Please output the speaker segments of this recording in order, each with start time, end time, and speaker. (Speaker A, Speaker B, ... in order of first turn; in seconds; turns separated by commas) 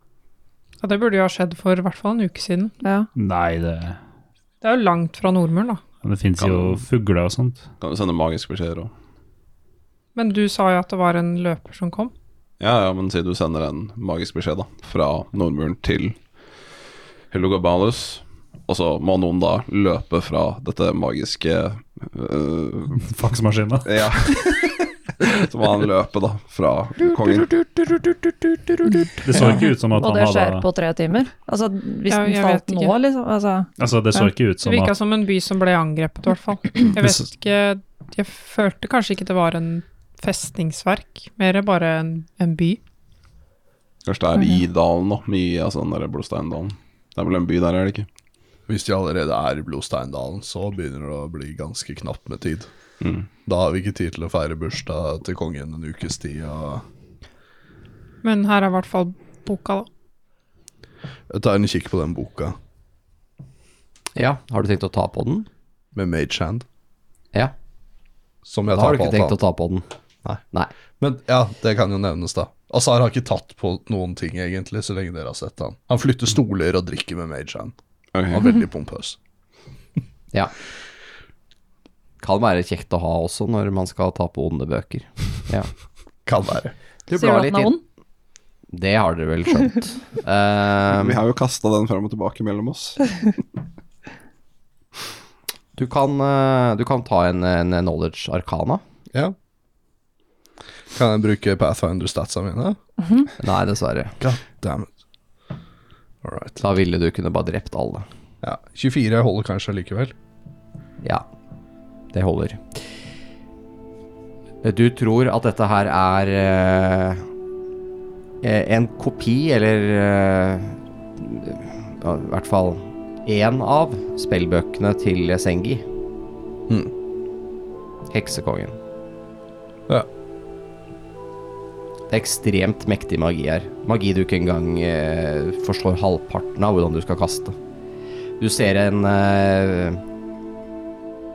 Speaker A: 0.8-2.7, Speaker B: 2.8-3.1, Speaker C: 3.1-4.0, Speaker A: 4.6-5.8, Speaker C: 6.0-7.6, Speaker D: 6.4-6.8, Speaker D: 7.8-8.9, Speaker A: 10.1-12.1, Speaker D: 12.6-16.2, Speaker D: 17.3-23.0, Speaker C: 23.0-23.9, Speaker D: 23.8-28.5, Speaker C: 29.2-30.6, Speaker B: 29.3-34.3, Speaker A: 32.1-33.0, Speaker C: 33.8-34.9, Speaker A: 34.6-42.8, Speaker D: 44.0-48.1, Speaker E: 48.7-52.7, Speaker D: 53.0-53.3, Speaker E: 53.4-56.8, Speaker A: 58.2-59.9, Speaker E: 61.3-62.5, Speaker F: 64.2-65.5, Speaker E: 65.9-66.7, Speaker E: 68.4-69.4, Speaker F: 68.7-69.9, Speaker E: 71.0-77.7, Speaker D: 78.1-78.5, Speaker E: 78.3-79.2, Speaker F: 82.2-85.7, Speaker E: 86.2-86.7, Speaker F: 87.1-87.7, Speaker B: 87.1-87.8, Speaker F: 88.7-91.2, Speaker D: 90.9-93.2, Speaker F: 95.8-98.8, Speaker E: 100.9-102.8, Speaker F: 103.4-104.2, Speaker E: 104.2-104.9, Speaker E: 106.2-106.6, Speaker F: 106.6-108.1, Speaker E: 108.4-110.1, Speaker F: 112.1-112.9, Speaker F: 114.6-117.2, Speaker F: 118.4-125.8, Speaker F: 128.1-128.8, Speaker F: 132.1-137.6, Speaker F: 138.4-140.0